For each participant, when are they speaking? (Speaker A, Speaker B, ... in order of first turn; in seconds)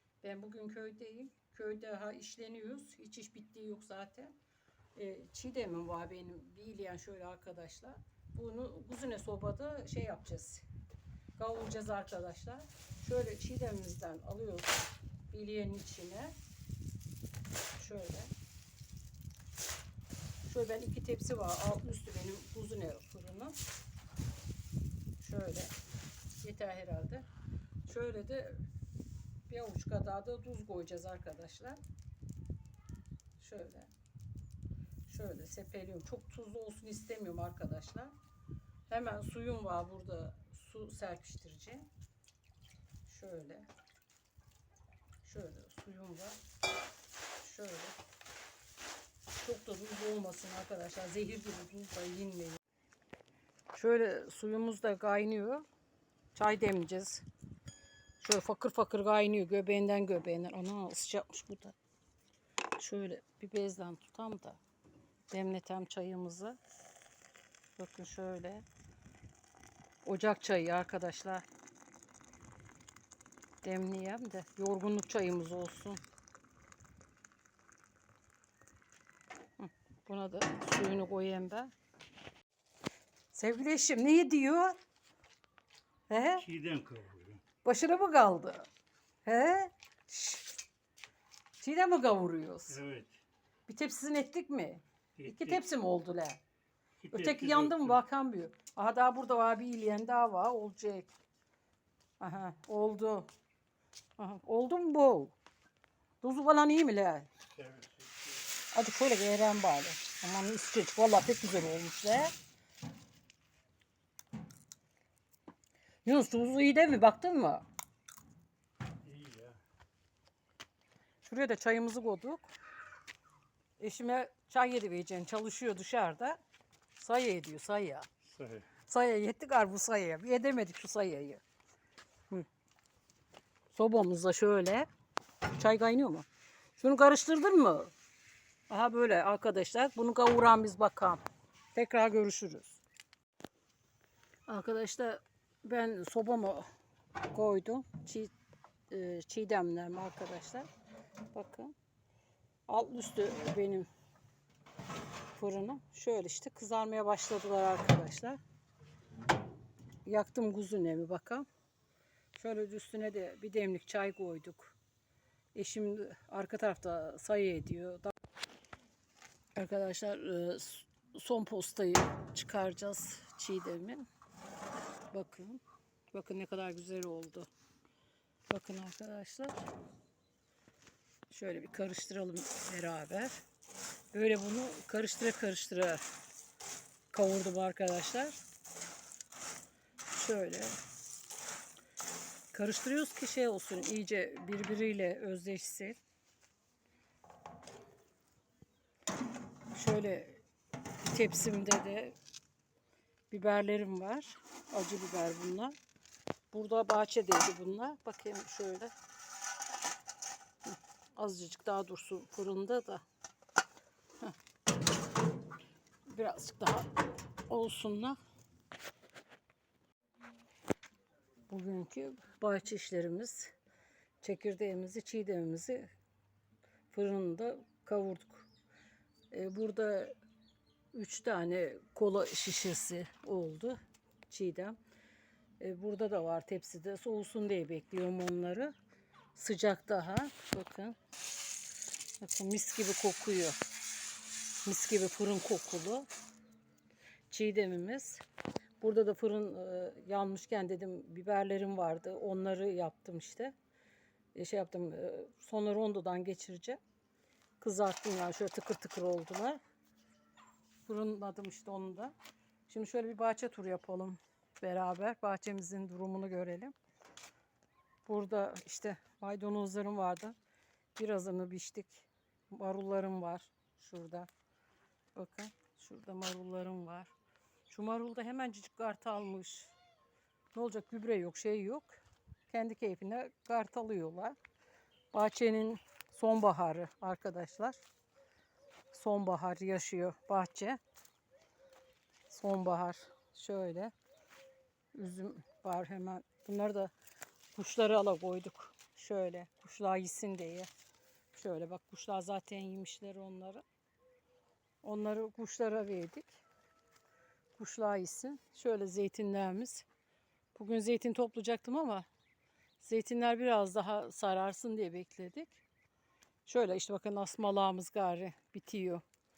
Speaker A: 0.2-4.3, 4.9-10.6, 11.3-16.3, 17.8-18.3, 20.4-23.6, 25.2-25.7, 26.4-27.2, 27.9-28.6, 29.5-31.8, 33.4-33.9, 35.1-38.1, 38.9-41.9, 43.0-43.7, 45.2-46.4, 47.4-48.0, 49.4-52.6, 53.7-55.6, 56.3-57.2, 58.2-61.8, 62.8-64.6, 65.3-66.5, 67.8-68.6, 70.0-71.4, 73.6-76.0, 79.6-81.7, 83.3-84.8, 86.1-86.4, 87.6-88.7, 89.2-90.5, 91.6-92.8, 93.7-96.4, 97.1-101.1, 102.2-103.3, 104.2-105.3, 106.2-107.3, 108.7-112.3, 116.0-117.6, 121.2-122.5, 123.8-126.4, 127.0-128.1, 128.9-131.4, 133.7-134.9, 135.5-136.2, 136.8-137.9, 138.7-141.2, 141.7-142.8, 144.5-146.7, 147.3-148.3, 148.9-150.7, 151.3-151.7, 152.7-153.9, 155.3-158.4, 160.0-161.4, 162.3-164.8, 165.5-168.1, 169.5-174.1, 175.1-175.6, 176.1-177.5, 178.5-179.6, 181.3-183.4, 184.1-186.0, 187.1-188.4, 190.1-190.7, 192.5-196.0, 199.7-200.4, 201.0-202.2, 203.3-205.7, 206.5-208.9, 210.7-213.0, 216.1-216.9, 217.5-218.2, 221.5-223.5, 224.2-225.9, 226.9-228.5, 229.3-230.1, 230.9-234.8, 235.6-238.7, 239.3-241.0, 242.2-243.6, 244.6-246.1, 247.3-248.2, 248.8-253.5, 254.3-256.8, 257.6-259.6, 260.9-262.1, 262.7-266.7, 268.1-270.3, 270.9-274.3, 275.1-277.1, 277.7-279.7, 280.5-282.0, 282.5-284.4, 285.1-287.8, 288.9-290.8, 292.3-293.9, 294.9-296.9, 297.5-300.7, 301.3-303.6, 304.8-306.4, 307.6-309.9, 310.5-312.1, 312.8-315.6, 316.4-319.0
Speaker B: 86.4-87.4, 92.7-93.2, 95.2-95.5, 97.0-98.0, 107.5-108.2, 119.0-119.6, 128.3-128.7